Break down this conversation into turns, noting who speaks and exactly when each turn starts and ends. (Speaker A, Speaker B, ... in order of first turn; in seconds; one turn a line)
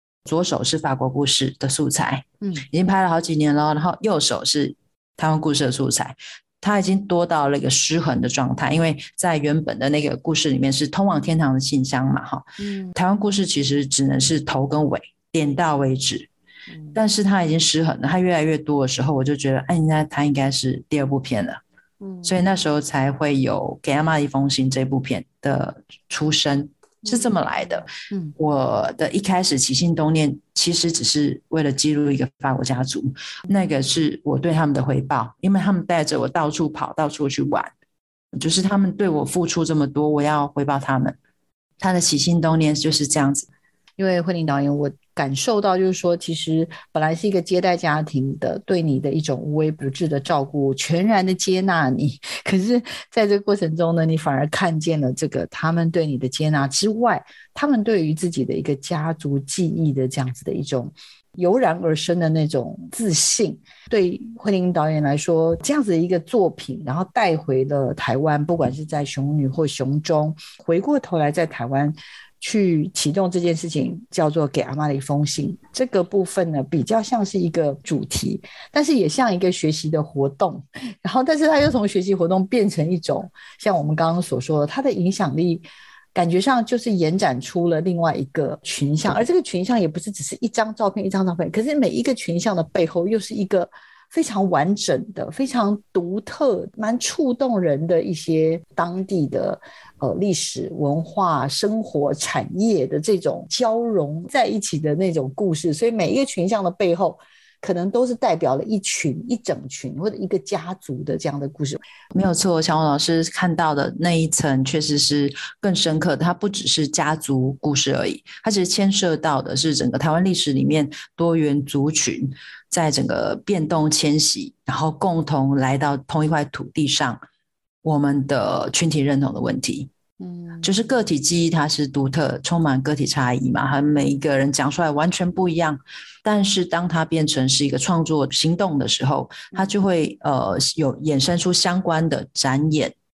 Speaker A: 0.2-16.3
Speaker B: 12.6-12.9
Speaker A: 16.9-21.6
Speaker B: 22.0-22.4
Speaker A: 22.2-37.7
Speaker A: 38.3-41.2
Speaker A: 41.8-43.5
Speaker B: 44.0-111.8
Speaker A: 112.1-127.2
Speaker A: 127.8-129.9
Speaker B: 130.2-130.6
Speaker A: 130.6-142.9